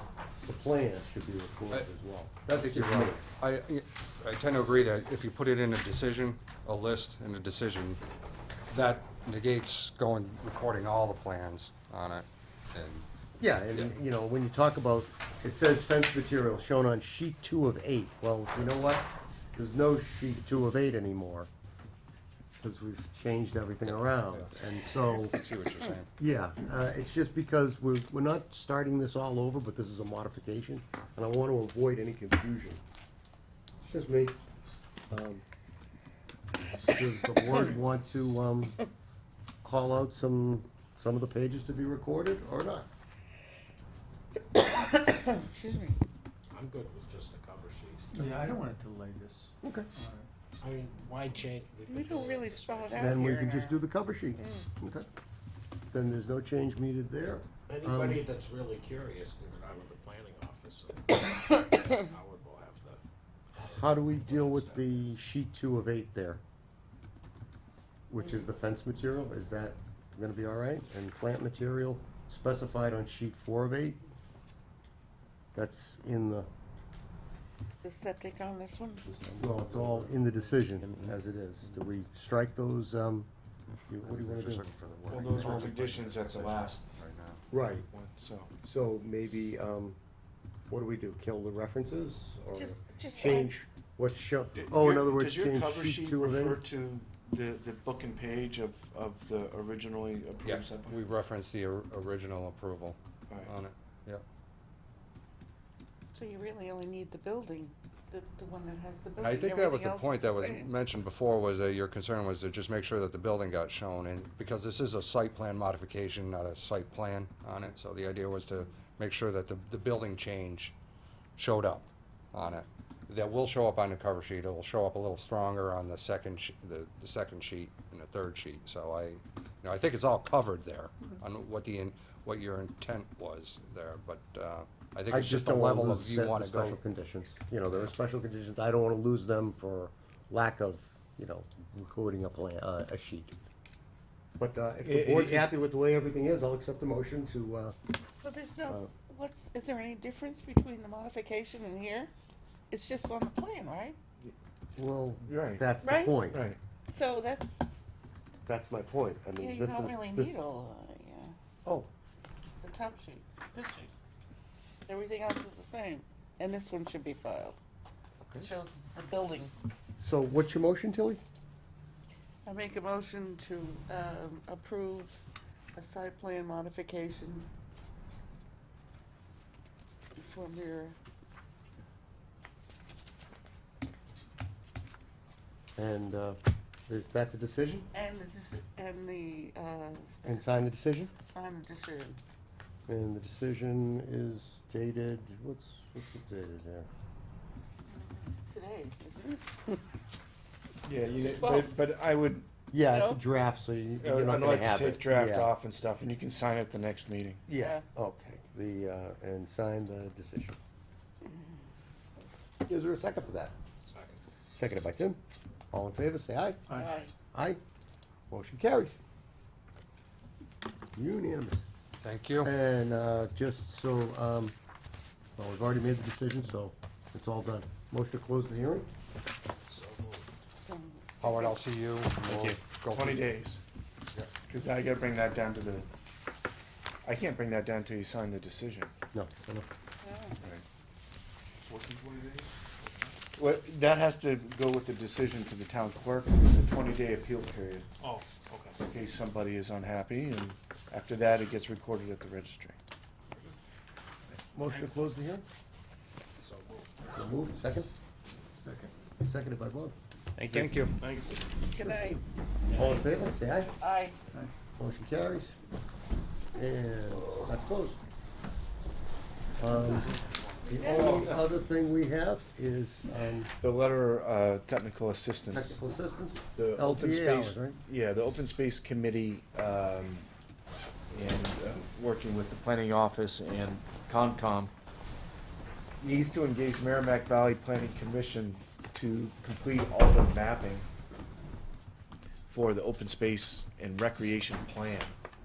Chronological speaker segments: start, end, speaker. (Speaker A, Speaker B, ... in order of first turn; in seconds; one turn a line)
Speaker A: 0.4-3.2
Speaker B: 2.5-8.0
Speaker B: 8.7-13.1
Speaker A: 13.4-21.5
Speaker A: 22.5-25.4
Speaker B: 23.8-24.5
Speaker B: 25.1-26.1
Speaker A: 26.2-32.8
Speaker A: 33.8-34.3
Speaker A: 35.1-35.4
Speaker A: 36.9-38.8
Speaker A: 39.6-42.9
Speaker C: 44.5-46.0
Speaker D: 46.5-48.0
Speaker E: 48.1-50.3
Speaker A: 49.6-49.9
Speaker D: 50.6-53.2
Speaker C: 51.9-53.8
Speaker A: 52.9-55.0
Speaker C: 54.4-54.6
Speaker A: 55.9-58.2
Speaker D: 57.7-63.0
Speaker D: 63.5-65.1
Speaker A: 63.7-66.4
Speaker A: 68.1-74.0
Speaker A: 75.5-76.5
Speaker C: 77.8-79.0
Speaker A: 79.4-83.3
Speaker B: 80.8-81.1
Speaker A: 83.9-85.8
Speaker B: 84.0-87.4
Speaker F: 85.1-86.8
Speaker A: 87.5-87.8
Speaker F: 87.9-88.5
Speaker A: 88.6-90.0
Speaker A: 90.7-96.6
Speaker C: 92.5-93.5
Speaker F: 94.5-101.1
Speaker B: 100.4-104.2
Speaker C: 106.1-110.7
Speaker B: 109.2-120.7
Speaker B: 121.4-136.8
Speaker A: 135.1-143.4
Speaker A: 144.4-147.7
Speaker F: 144.8-145.6
Speaker C: 148.2-152.1
Speaker C: 152.7-154.0
Speaker A: 154.8-156.5
Speaker F: 155.2-155.7
Speaker C: 155.8-156.2
Speaker F: 156.3-156.6
Speaker C: 156.9-157.7
Speaker A: 158.4-160.5
Speaker C: 159.4-161.3
Speaker C: 162.6-163.9
Speaker C: 164.9-167.6
Speaker C: 168.4-169.5
Speaker A: 170.0-171.2
Speaker C: 172.4-175.2
Speaker C: 175.7-177.5
Speaker C: 180.2-181.0
Speaker A: 185.8-187.9
Speaker C: 187.9-190.3
Speaker A: 190.2-191.1
Speaker C: 191.2-192.2
Speaker A: 192.9-196.9
Speaker C: 197.9-199.8
Speaker F: 200.8-202.5
Speaker C: 201.2-201.8
Speaker A: 202.7-205.5
Speaker C: 202.8-203.2
Speaker F: 204.0-207.4
Speaker A: 207.5-210.6
Speaker C: 207.6-207.8
Speaker A: 212.7-213.5
Speaker D: 213.8-214.2
Speaker A: 214.5-215.2
Speaker A: 215.7-216.6
Speaker E: 216.7-216.9
Speaker C: 216.7-217.1
Speaker A: 217.3-217.6
Speaker A: 218.3-219.0
Speaker A: 220.9-221.6
Speaker B: 222.0-222.5
Speaker A: 222.4-224.5
Speaker A: 225.3-228.9
Speaker D: 229.7-230.3
Speaker C: 230.6-231.6
Speaker B: 231.2-233.3
Speaker F: 232.3-233.6
Speaker F: 234.4-235.9
Speaker F: 237.0-238.9
Speaker A: 239.1-239.7
Speaker C: 240.0-240.4
Speaker F: 240.4-240.6
Speaker F: 241.7-252.8
Speaker A: 254.5-255.4
Speaker D: 256.4-257.1
Speaker A: 257.1-257.9
Speaker A: 259.2-259.9
Speaker B: 260.4-261.0
Speaker C: 261.7-262.2
Speaker D: 262.7-263.6
Speaker A: 262.7-263.8
Speaker C: 263.8-264.2
Speaker A: 264.8-265.5
Speaker A: 266.5-268.0
Speaker A: 269.6-273.5
Speaker C: 270.8-271.2
Speaker F: 273.6-275.8
Speaker A: 275.5-277.8
Speaker F: 276.5-280.3
Speaker F: 281.1-284.7
Speaker F: 286.0-290.9
Speaker F: 292.5-295.1